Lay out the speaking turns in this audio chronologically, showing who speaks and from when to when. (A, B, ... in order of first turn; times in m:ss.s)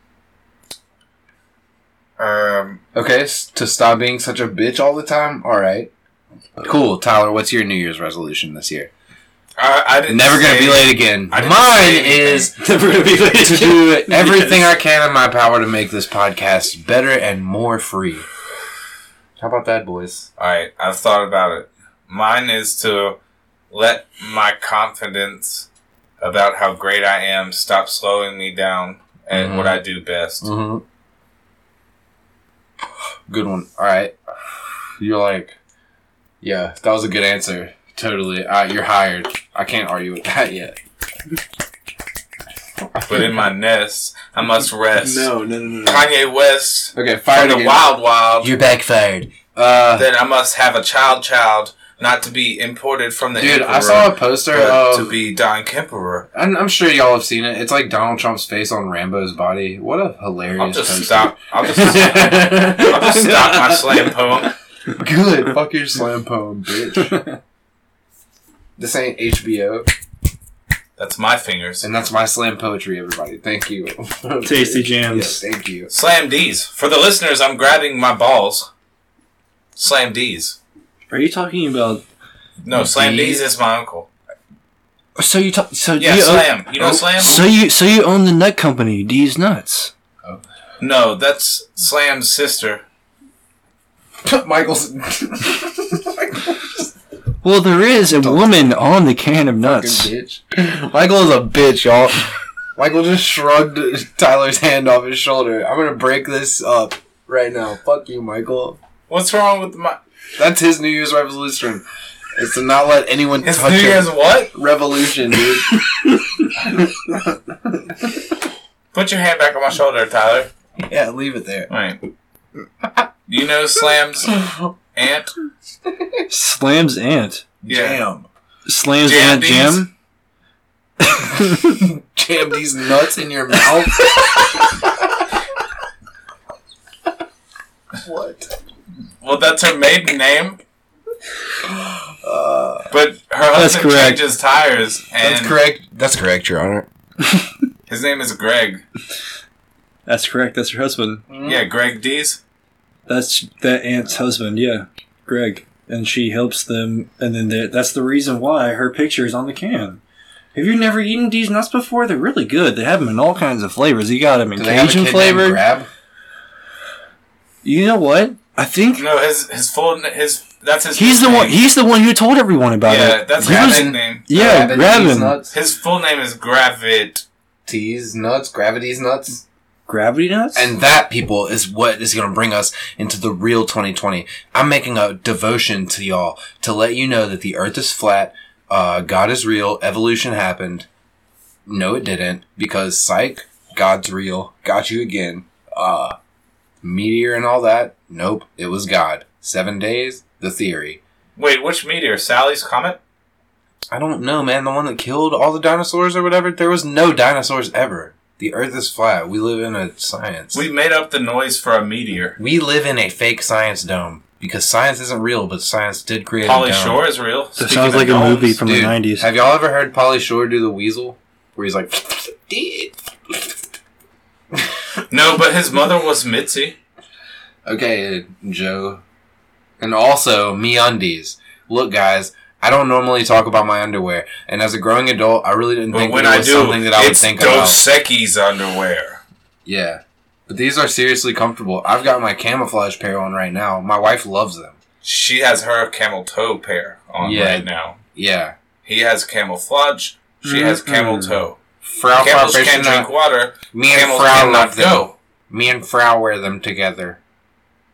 0:02.2-0:02.8 A
0:02.9-0:05.9 B
0:06.6-0:08.9 B
0:09.6-0:12.5 A
0:10.1-0:12.5 B
0:12.5-0:14.8 C
0:13.3-0:18.2 B
0:19.4-0:20.3 B
0:20.4-0:23.2 A
0:23.7-0:25.7 A
0:26.2-0:30.5 A
0:29.3-0:29.8 B
0:30.4-0:30.8 B
0:33.3-0:34.1 B
0:35.0-0:35.6 B
0:36.4-0:40.8 B
0:43.0-0:48.5 A
0:45.0-0:46.1 B
0:46.9-0:50.1 B
0:49.9-0:56.3 A
0:53.4-0:55.2 B
0:56.3-1:02.9 B
1:00.6-1:04.5 A
1:01.7-1:04.5 C
1:05.0-1:07.1 B
1:07.0-1:07.4 C
1:08.8-1:09.9 B
1:11.0-1:11.9 A
1:11.8-1:15.9 B
1:14.4-1:15.4 C
1:15.9-1:18.7 A
1:19.8-1:20.6 A
1:21.1-1:22.0 C
1:22.6-1:24.1 A
1:22.7-1:23.4 B
1:25.2-1:29.9 C
1:26.0-1:27.4 A
1:30.8-1:32.8 A
1:34.2-1:36.8 B
1:37.4-1:40.1 C
1:38.2-1:38.8 B
1:39.6-1:48.8 B
1:49.1-1:50.0 A
1:50.4-1:51.8 B
1:52.4-1:55.8 B
1:53.4-1:54.5 A
1:58.9-2:00.5 A
2:00.8-2:01.7 B
2:01.7-2:02.0 A
2:03.3-2:04.4 A
2:04.3-2:04.7 B
2:04.9-2:05.3 A
2:06.3-2:07.5 C
2:07.6-2:08.0 A
2:07.6-2:08.3 B
2:08.7-2:09.9 C
2:09.0-2:09.9 A
2:11.7-2:15.2 B
2:18.0-2:18.5 B
2:19.2-2:20.6 A
2:22.2-2:22.9 B
2:22.9-2:25.6 A
2:23.5-2:24.3 C
2:25.2-2:26.9 B
2:27.9-2:28.8 A
2:30.0-2:31.2 C
2:31.3-2:31.6 B
2:31.4-2:32.4 A
2:33.0-2:40.0 C
2:40.5-2:45.6 C
2:44.5-2:45.9 B
2:47.6-2:49.1 C
2:49.0-2:51.6 A
2:50.9-2:55.4 C
2:52.8-2:54.3 A
2:53.4-2:55.5 B
2:55.5-2:57.2 A
2:57.6-2:59.4 B
2:59.9-3:00.7 C
3:00.5-3:10.9 B
3:11.7-3:16.2 B
3:16.8-3:21.0 B
3:21.4-3:23.0 A
3:23.9-3:30.7 B
3:30.5-3:32.4 A
3:32.4-3:37.0 B
3:36.4-3:38.6 A
3:37.6-3:39.3 C
3:38.6-3:43.4 B
3:45.1-3:46.8 A
3:47.6-3:49.0 B
3:49.8-3:57.8 B
3:55.9-3:59.2 A
3:59.6-4:04.8 B
4:05.0-4:08.0 A
4:07.2-4:08.5 B
4:08.8-4:11.6 A
4:10.4-4:11.4 C
4:11.8-4:13.1 B
4:12.2-4:15.1 A
4:13.7-4:17.2 B